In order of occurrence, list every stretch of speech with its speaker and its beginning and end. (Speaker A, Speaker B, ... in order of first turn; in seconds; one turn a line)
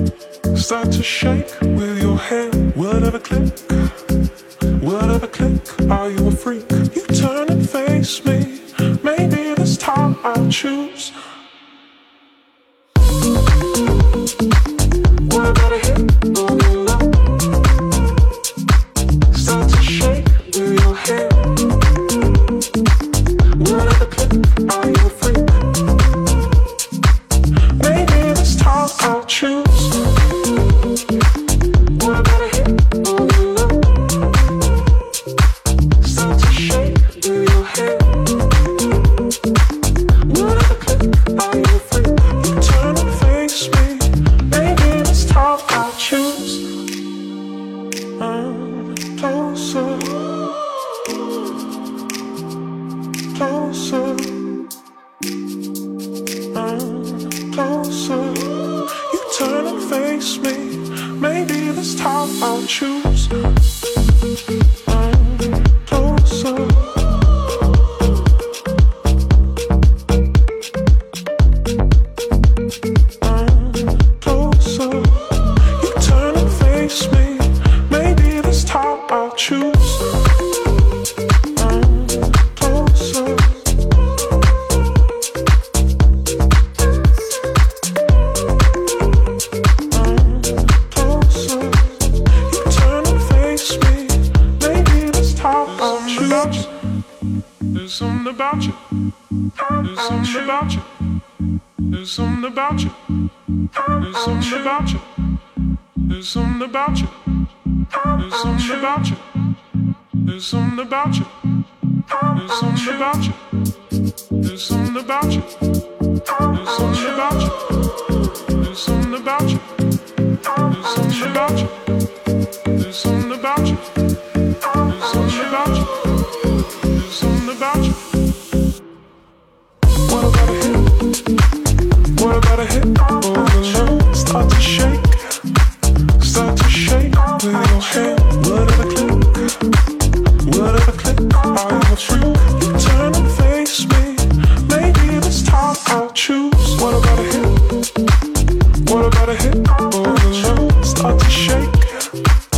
Speaker A: 0.5-3.9
Speaker A: 4.8-11.2
Speaker A: 15.2-17.4
Speaker A: 19.3-21.8
Speaker A: 23.5-25.9
Speaker A: 27.8-30.3
Speaker A: 31.9-34.4
Speaker A: 36.0-38.6
Speaker A: 40.2-46.7
Speaker A: 48.2-50.6
Speaker A: 53.3-54.4
Speaker A: 56.5-63.3
Speaker A: 64.9-67.2
Speaker A: 73.2-80.2
Speaker A: 81.5-83.7
Speaker A: 89.9-96.7
Speaker A: 97.7-98.8
Speaker A: 99.5-101.0
Speaker A: 101.8-103.0
Speaker A: 103.6-105.1
Speaker A: 106.1-107.2
Speaker A: 107.8-109.2
Speaker A: 110.2-111.3
Speaker A: 112.1-113.4
Speaker A: 114.4-115.6
Speaker A: 116.1-117.8
Speaker A: 118.5-119.6
Speaker A: 120.4-121.9
Speaker A: 122.7-123.9
Speaker A: 124.7-126.2
Speaker A: 126.9-128.1
Speaker A: 130.0-131.2
Speaker A: 132.1-135.4
Speaker A: 136.2-139.7
Speaker A: 140.4-147.7
Speaker A: 148.8-152.1